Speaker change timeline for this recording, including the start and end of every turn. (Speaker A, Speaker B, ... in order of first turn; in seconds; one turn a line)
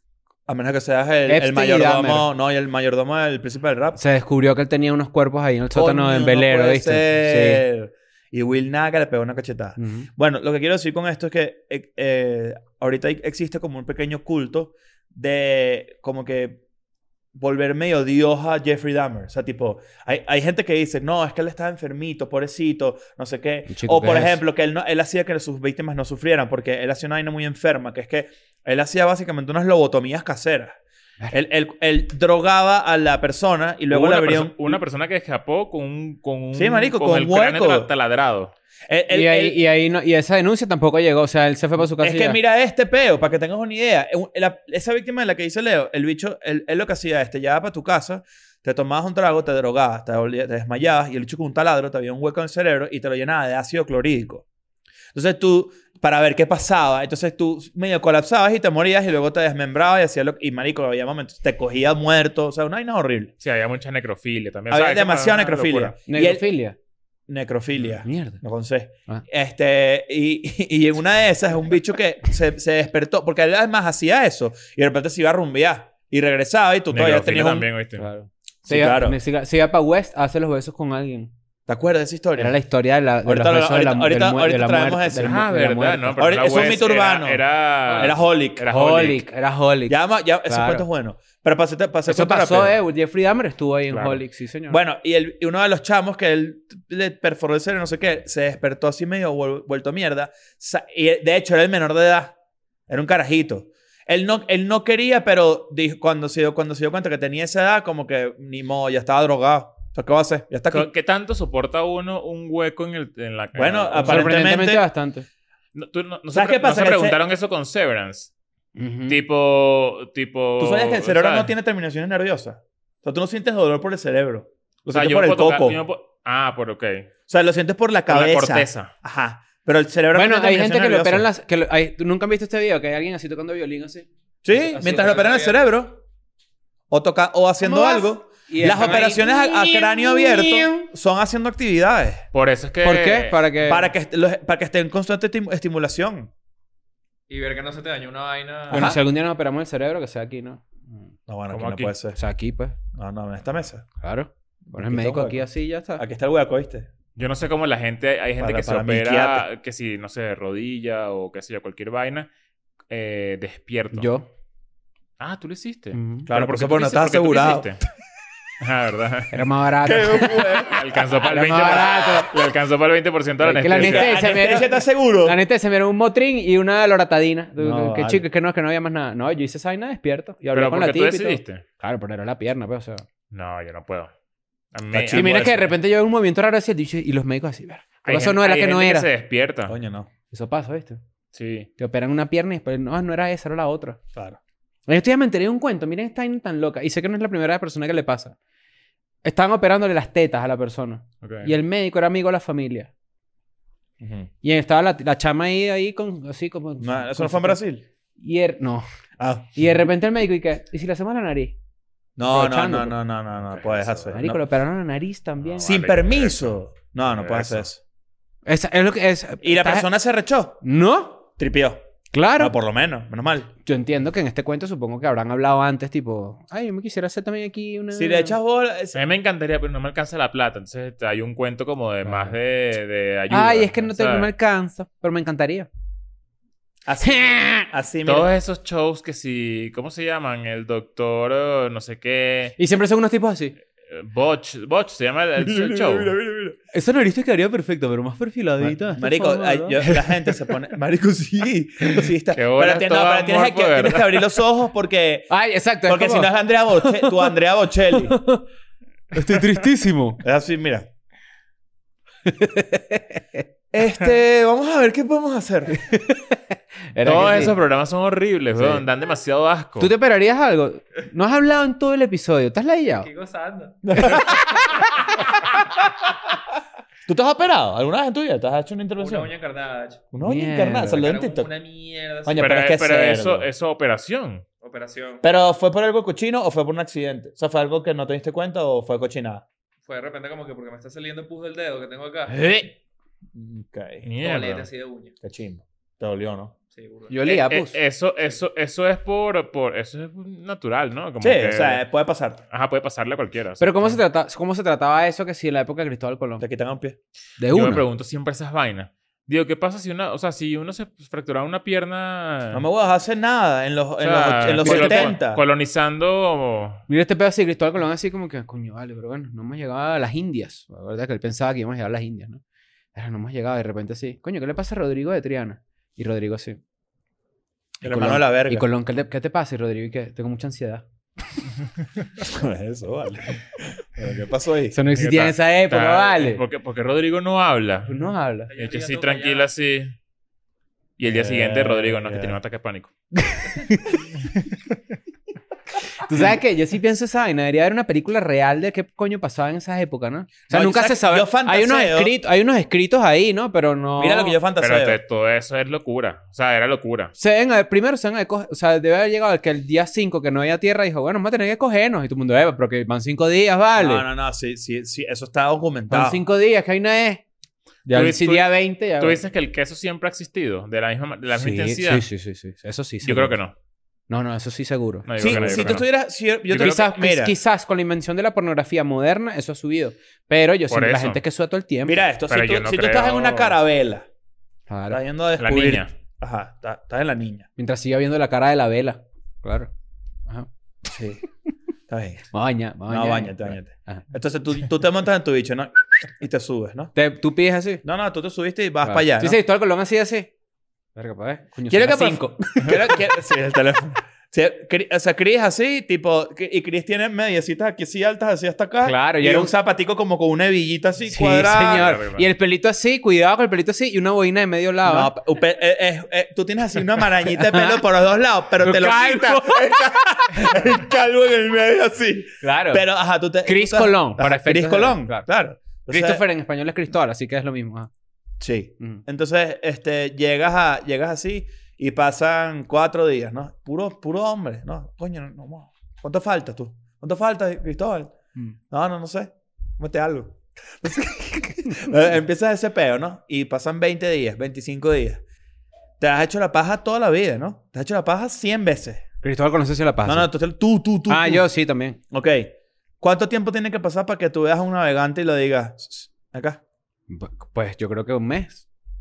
Speaker A: 0.5-4.0
Speaker B: 1.3-2.3
Speaker B: 4.0-7.6
Speaker A: 5.7-16.6
Speaker B: 9.8-10.1
Speaker A: 17.4-30.8
Speaker B: 23.7-24.4
Speaker A: 31.3-34.8
Speaker C: 33.9-38.5
Speaker A: 36.5-37.9
Speaker A: 38.9-39.6
Speaker B: 39.1-42.4
Speaker A: 42.0-54.4
Speaker A: 55.1-63.3
Speaker C: 63.4-66.0
Speaker A: 64.7-66.5
Speaker B: 66.1-66.8
Speaker A: 67.3-77.7
Speaker B: 68.0-68.4
Speaker C: 76.9-78.0
Speaker B: 78.0-81.3
Speaker A: 78.7-79.2
Speaker A: 81.7-82.5
Speaker B: 82.4-86.8
Speaker A: 83.2-85.4
Speaker C: 85.2-89.2
Speaker A: 86.2-88.7
Speaker B: 88.7-90.8
Speaker A: 89.9-92.8
Speaker B: 92.1-94.8
Speaker C: 93.9-94.2
Speaker A: 94.7-102.3
Speaker A: 102.9-110.9
Speaker C: 110.7-114.4
Speaker A: 113.5-114.8
Speaker B: 114.0-115.3
Speaker C: 115.8-118.3
Speaker A: 116.3-117.2
Speaker B: 118.8-119.2
Speaker C: 119.1-121.5
Speaker A: 120.6-125.8
Speaker C: 124.9-127.1
Speaker A: 127.3-131.3
Speaker C: 128.1-128.9
Speaker B: 130.1-135.4
Speaker A: 134.4-136.0
Speaker D: 134.7-135.6
Speaker A: 136.9-142.2
Speaker B: 137.6-140.9
Speaker C: 142.3-143.4
Speaker B: 142.8-143.9
Speaker A: 143.6-146.3
Speaker D: 147.3-148.9
Speaker A: 148.7-149.0
Speaker B: 148.7-151.0
Speaker A: 151.3-152.2
Speaker C: 151.5-151.9
Speaker B: 152.2-152.8
Speaker A: 152.9-153.9
Speaker B: 154.0-156.0
Speaker A: 154.7-155.4
Speaker A: 156.0-156.9
Speaker C: 157.2-162.3
Speaker A: 158.4-159.5
Speaker C: 162.9-164.1
Speaker B: 163.9-164.3
Speaker C: 165.2-167.8
Speaker B: 165.9-166.3
Speaker A: 166.3-167.8
Speaker C: 168.6-169.3
Speaker B: 169.3-170.7
Speaker A: 169.8-171.9
Speaker C: 170.7-174.4
Speaker B: 171.2-172.3
Speaker B: 173.4-183.1
Speaker A: 173.7-175.4
Speaker A: 177.6-178.2
Speaker C: 180.5-181.6
Speaker C: 183.3-184.1
Speaker C: 184.7-185.6
Speaker A: 184.9-185.7
Speaker B: 185.1-189.1
Speaker C: 188.1-189.8
Speaker A: 189.7-190.1
Speaker B: 190.3-191.0
Speaker C: 191.3-191.7
Speaker B: 191.8-194.0
Speaker B: 194.9-198.3
Speaker B: 199.2-202.9
Speaker C: 201.2-201.5
Speaker A: 204.0-204.3
Speaker B: 204.4-207.6
Speaker A: 206.8-207.8
Speaker B: 208.2-208.9
Speaker A: 209.2-209.6
Speaker B: 209.6-211.6
Speaker A: 212.2-214.4
Speaker B: 212.3-213.0
Speaker C: 213.5-214.1
Speaker B: 214.1-215.7
Speaker C: 215.4-216.6
Speaker A: 215.6-217.8
Speaker C: 217.1-217.7
Speaker B: 218.5-219.9
Speaker A: 219.4-220.6
Speaker B: 220.6-221.2
Speaker A: 221.4-221.8
Speaker B: 222.1-222.5
Speaker A: 222.4-223.5
Speaker B: 223.7-228.4
Speaker A: 227.9-229.0
Speaker C: 228.9-234.3
Speaker B: 232.1-232.3
Speaker B: 233.3-235.7
Speaker A: 236.9-238.3
Speaker B: 237.0-237.7
Speaker C: 238.1-242.6
Speaker B: 242.6-243.6
Speaker C: 243.9-246.2
Speaker A: 245.4-246.6
Speaker B: 246.7-250.1
Speaker A: 248.6-255.3
Speaker C: 252.3-254.3
Speaker B: 255.3-257.3
Speaker A: 255.8-258.2
Speaker B: 257.9-258.4
Speaker B: 259.1-260.2
Speaker A: 260.2-260.9
Speaker B: 262.3-263.4
Speaker A: 263.7-265.8
Speaker B: 265.7-266.4
Speaker B: 266.9-267.6
Speaker C: 267.0-269.9
Speaker B: 268.6-268.8
Speaker B: 269.8-273.1
Speaker D: 273.0-274.1
Speaker A: 273.8-274.9
Speaker A: 277.1-279.3
Speaker D: 279.0-280.1
Speaker A: 280.1-281.5
Speaker B: 280.2-281.0
Speaker D: 280.9-282.5
Speaker A: 282.2-283.5
Speaker C: 282.4-284.4
Speaker D: 284.6-285.2
Speaker A: 285.2-289.4
Speaker D: 289.9-292.4
Speaker B: 292.3-292.7
Speaker A: 293.3-294.0
Speaker C: 294.0-294.7
Speaker D: 294.2-295.1
Speaker A: 295.2-296.5
Speaker D: 296.7-297.2
Speaker B: 297.1-297.8
Speaker C: 297.3-301.8
Speaker A: 301.2-302.4
Speaker C: 302.5-304.0
Speaker B: 303.6-306.4
Speaker A: 306.4-307.0
Speaker B: 307.4-307.8
Speaker C: 307.5-312.7
Speaker A: 312.5-315.4
Speaker C: 314.0-316.8
Speaker B: 314.6-315.1
Speaker B: 316.9-322.4
Speaker B: 322.9-326.6
Speaker A: 327.8-328.6
Speaker B: 327.8-330.9
Speaker A: 332.2-334.8
Speaker B: 334.7-336.4
Speaker C: 334.9-338.0
Speaker B: 337.9-338.5
Speaker D: 338.5-339.5
Speaker C: 338.6-339.9
Speaker C: 341.0-342.9
Speaker A: 341.0-342.4
Speaker B: 343.2-344.0
Speaker B: 346.0-354.4
Speaker A: 350.5-352.1
Speaker A: 354.0-355.0
Speaker C: 354.6-357.1
Speaker B: 357.2-364.1
Speaker A: 363.8-366.2
Speaker B: 365.9-367.2
Speaker B: 367.9-369.2
Speaker C: 367.9-372.1
Speaker B: 371.4-373.4
Speaker C: 373.0-373.5
Speaker B: 374.1-375.8
Speaker C: 375.1-375.9
Speaker A: 375.2-377.4
Speaker B: 376.5-382.0
Speaker C: 380.7-381.2
Speaker A: 381.9-384.1
Speaker C: 382.3-383.6
Speaker B: 384.7-385.0
Speaker A: 384.9-387.5
Speaker C: 385.4-385.9
Speaker B: 387.6-389.7
Speaker A: 390.9-391.2
Speaker A: 391.9-392.3
Speaker B: 392.3-394.0
Speaker A: 392.9-396.9
Speaker B: 396.9-397.8
Speaker A: 397.8-399.4
Speaker B: 398.8-400.3
Speaker B: 401.0-403.0
Speaker A: 401.7-412.0
Speaker B: 408.8-409.5
Speaker B: 411.1-415.1
Speaker C: 411.5-412.3
Speaker A: 414.9-426.2
Speaker B: 417.3-417.8
Speaker B: 418.6-420.6
Speaker B: 422.4-422.9
Speaker B: 423.4-425.2
Speaker B: 425.9-427.9
Speaker A: 428.4-438.1
Speaker A: 438.7-445.2
Speaker A: 446.0-449.1
Speaker B: 449.2-450.3
Speaker A: 450.1-451.5
Speaker B: 451.1-452.0
Speaker A: 452.1-456.6
Speaker B: 457.1-458.6